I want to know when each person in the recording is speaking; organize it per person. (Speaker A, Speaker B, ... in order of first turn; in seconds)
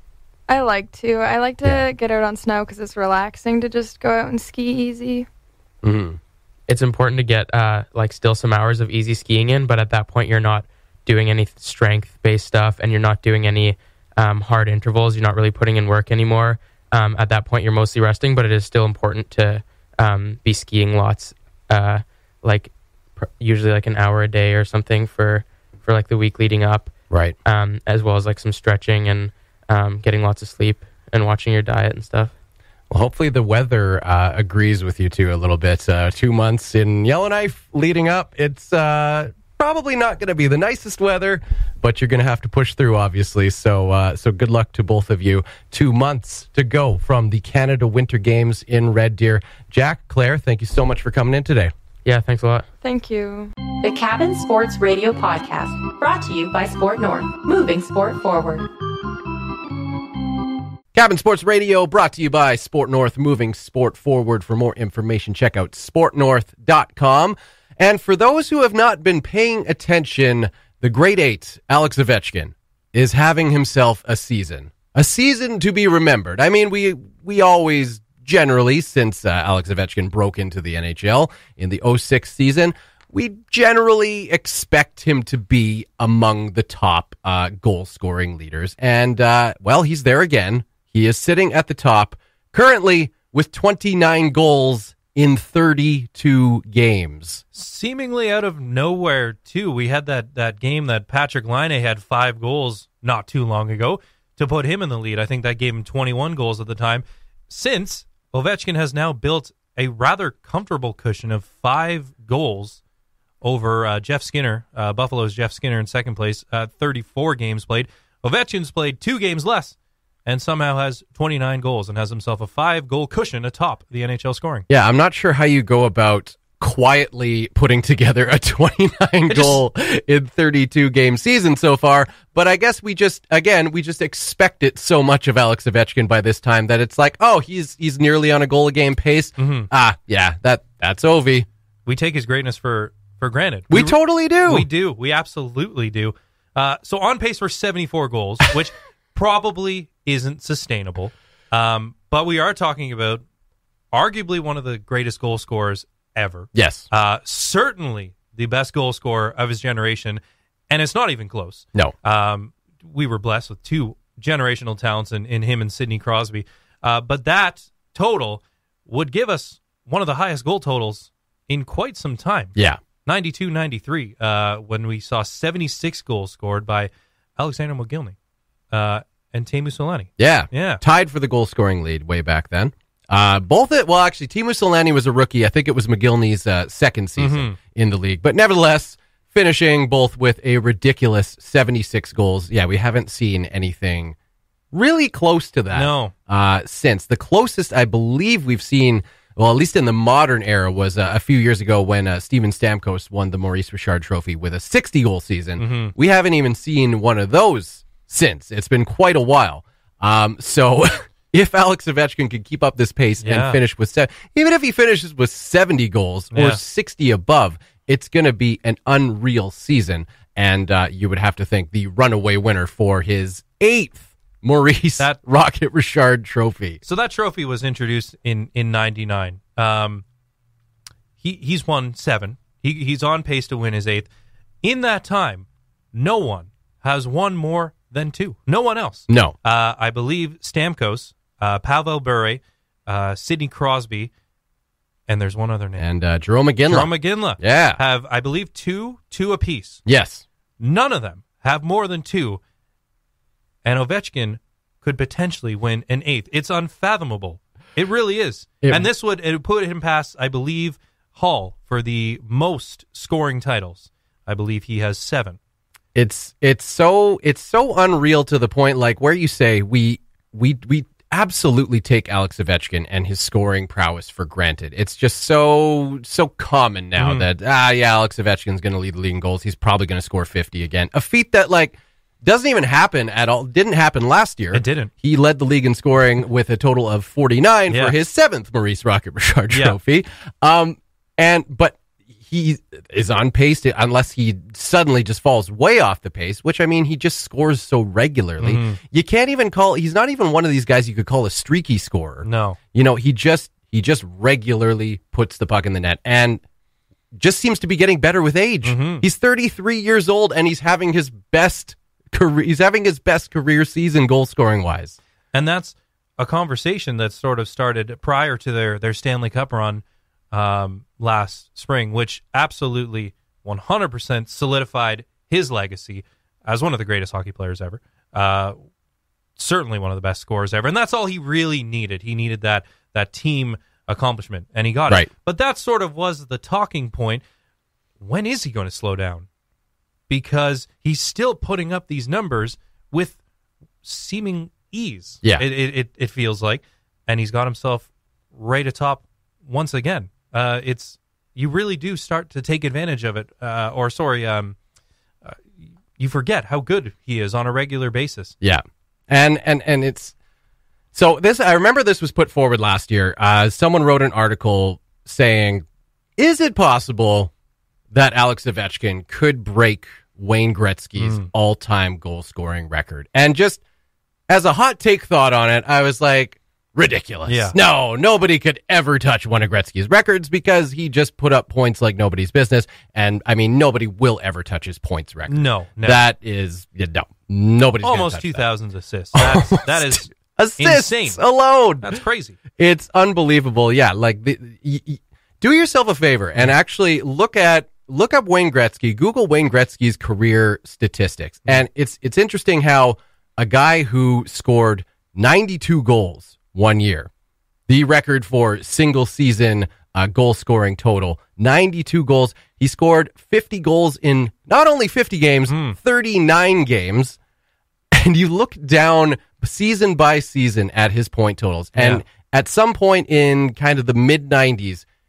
Speaker A: 0.5-5.3, 52.8-53.5
Speaker B: 5.8-6.2, 27.1-27.4, 32.9-51.7, 60.9-97.4, 124.7-141.5, 143.7-144.7, 156.5-156.9, 180.2-194.2, 194.7-226.8, 239.1-239.3, 245.8-247.8, 249.9-250.2, 258.6-258.9, 265.9-306.4, 307.1-315.0, 358.4-360.1, 360.9-365.6, 366.2-367.3, 367.9-373.6, 374.3-388.5, 389.1-392.0, 392.6-407.1, 407.7-417.2, 417.9-424.9
Speaker C: 6.7-26.9, 27.4-32.3, 52.0-52.7
Speaker D: 53.8-58.7
Speaker E: 97.5-112.8, 113.4-119.8, 120.3-124.7, 129.3-129.6, 139.4-139.7, 141.9-153.2, 153.9-172.5, 173.1-178.2, 178.7-180.8, 187.2-187.6, 195.7-196.1, 205.6-205.9, 213.2-213.6, 216.3-216.6, 226.8-230.0, 231.2-234.1, 234.6-244.1, 245.1-245.9, 246.7-249.8, 250.6-252.4, 253.7-265.4, 277.0-277.3, 284.5-284.9, 287.7-288.0, 289.5-289.8, 298.4-298.8, 302.2-302.6, 308.6-309.0, 315.3-328.6, 329.4-337.2, 338.0-339.3, 340.1-343.2, 343.8-354.6, 356.0-358.3, 371.0-371.3, 377.3-377.6, 385.3-386.0, 387.8-391.2, 391.8-392.4, 415.5-415.8, 421.8-422.0